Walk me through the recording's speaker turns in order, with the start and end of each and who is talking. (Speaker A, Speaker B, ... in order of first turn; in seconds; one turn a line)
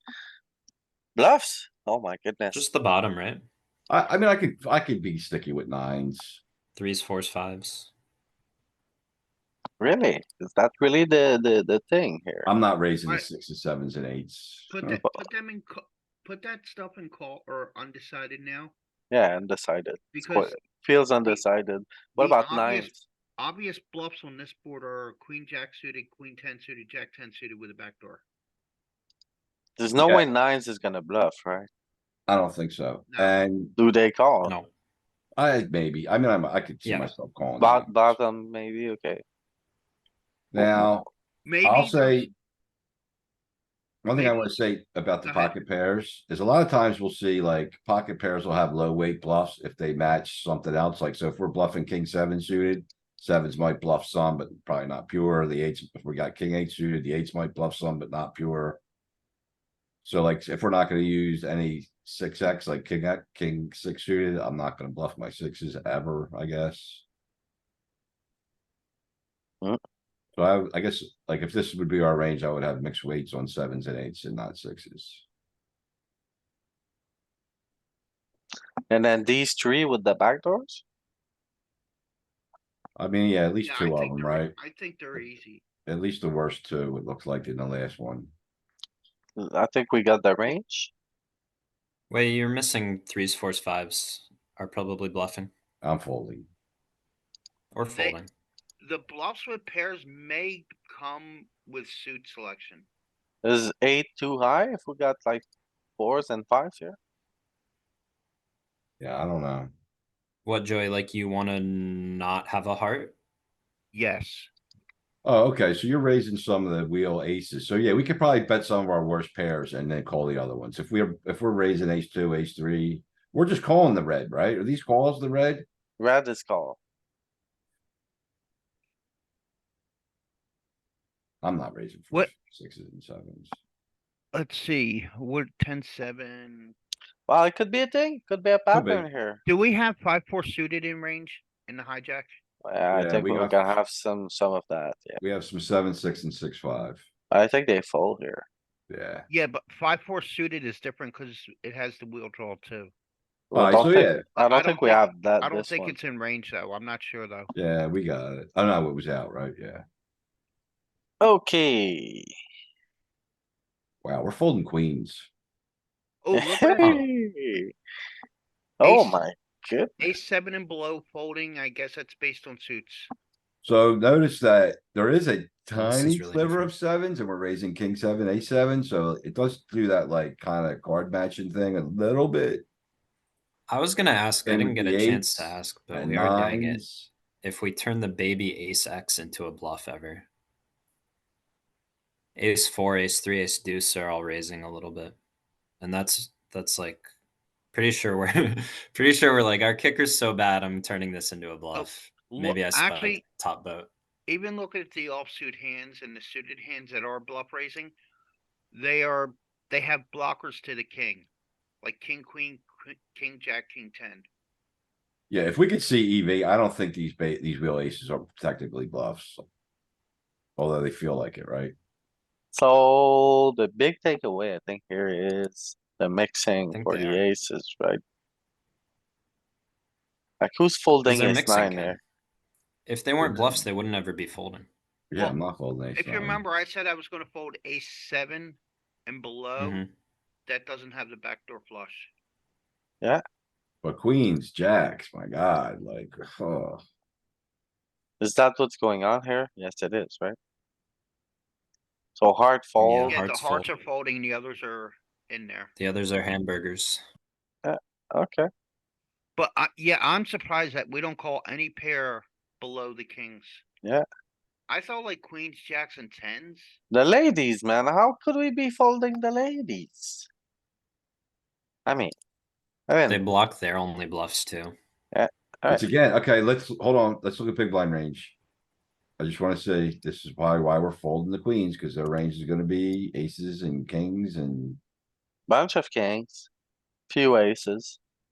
Speaker A: 1.2-2.6
Speaker B: 2.5-3.5
Speaker C: 3.9-6.4
Speaker B: 6.8-7.9
Speaker A: 9.8-12.5
Speaker C: 12.5-15.0
Speaker D: 14.7-18.7
Speaker A: 19.1-23.0
Speaker D: 20.1-20.6
Speaker D: 22.2-28.2
Speaker A: 29.8-31.7
Speaker C: 30.0-30.3
Speaker C: 32.3-33.8
Speaker D: 33.1-33.4
Speaker A: 33.8-34.5
Speaker B: 34.4-34.7
Speaker C: 35.4-38.2
Speaker B: 36.8-37.1
Speaker A: 37.6-39.2
Speaker C: 40.5-41.1
Speaker A: 40.5-41.0
Speaker D: 41.5-42.3
Speaker C: 41.6-42.3
Speaker C: 44.0-58.8
Speaker D: 44.2-44.5
Speaker D: 45.2-45.5
Speaker C: 60.0-67.0
Speaker C: 70.4-75.2
Speaker A: 78.9-80.8
Speaker C: 83.0-84.5
Speaker D: 83.6-85.6
Speaker C: 85.9-88.3
Speaker A: 89.4-90.9
Speaker B: 92.1-95.5
Speaker C: 95.8-96.5
Speaker B: 97.7-98.3
Speaker D: 97.9-98.2
Speaker D: 98.8-102.9
Speaker A: 103.4-105.5
Speaker A: 106.0-107.0
Speaker C: 109.0-109.7
Speaker B: 110.5-113.2
Speaker D: 113.9-114.5
Speaker C: 115.2-125.7
Speaker A: 126.0-126.8
Speaker C: 131.4-133.6
Speaker D: 134.3-136.8
Speaker A: 137.3-139.4
Speaker C: 138.7-139.1
Speaker D: 139.5-142.4
Speaker A: 142.6-145.2
Speaker C: 142.9-143.8
Speaker C: 145.2-147.1
Speaker A: 147.3-148.5
Speaker C: 148.9-149.3
Speaker D: 149.3-152.9
Speaker A: 153.5-156.0
Speaker C: 153.5-154.2
Speaker D: 154.4-157.5
Speaker C: 157.5-159.8
Speaker A: 161.2-162.3
Speaker C: 164.0-165.3
Speaker D: 166.2-167.0
Speaker A: 166.3-167.7
Speaker A: 168.8-170.1
Speaker D: 168.8-169.2
Speaker D: 170.0-173.1
Speaker C: 173.6-182.7
Speaker B: 175.8-176.7
Speaker B: 183.7-186.9
Speaker C: 184.5-187.1
Speaker B: 187.4-190.3
Speaker B: 192.4-195.2
Speaker B: 195.8-197.1
Speaker B: 197.7-203.9
Speaker D: 201.8-203.2
Speaker D: 204.3-207.9
Speaker D: 208.7-211.3
Speaker D: 211.8-214.3
Speaker C: 215.3-219.4
Speaker C: 220.6-221.8
Speaker A: 222.5-228.0
Speaker B: 226.7-227.2
Speaker A: 230.4-232.0
Speaker B: 231.1-232.0
Speaker B: 232.9-234.7
Speaker C: 233.2-233.7
Speaker C: 235.1-236.4
Speaker D: 235.9-239.8
Speaker B: 239.6-239.9
Speaker D: 240.5-242.1
Speaker C: 243.8-246.8
Speaker A: 248.2-250.4
Speaker A: 252.2-253.2
Speaker B: 252.8-253.7
Speaker D: 253.1-255.7
Speaker B: 255.8-257.0
Speaker A: 257.6-258.5
Speaker D: 259.4-263.6
Speaker D: 264.7-266.8
Speaker A: 266.9-270.3
Speaker A: 271.9-272.1
Speaker A: 272.9-273.2
Speaker B: 273.1-274.8
Speaker A: 275.1-275.9
Speaker C: 275.7-278.4
Speaker C: 279.2-284.8
Speaker A: 285.5-286.5
Speaker A: 287.1-288.0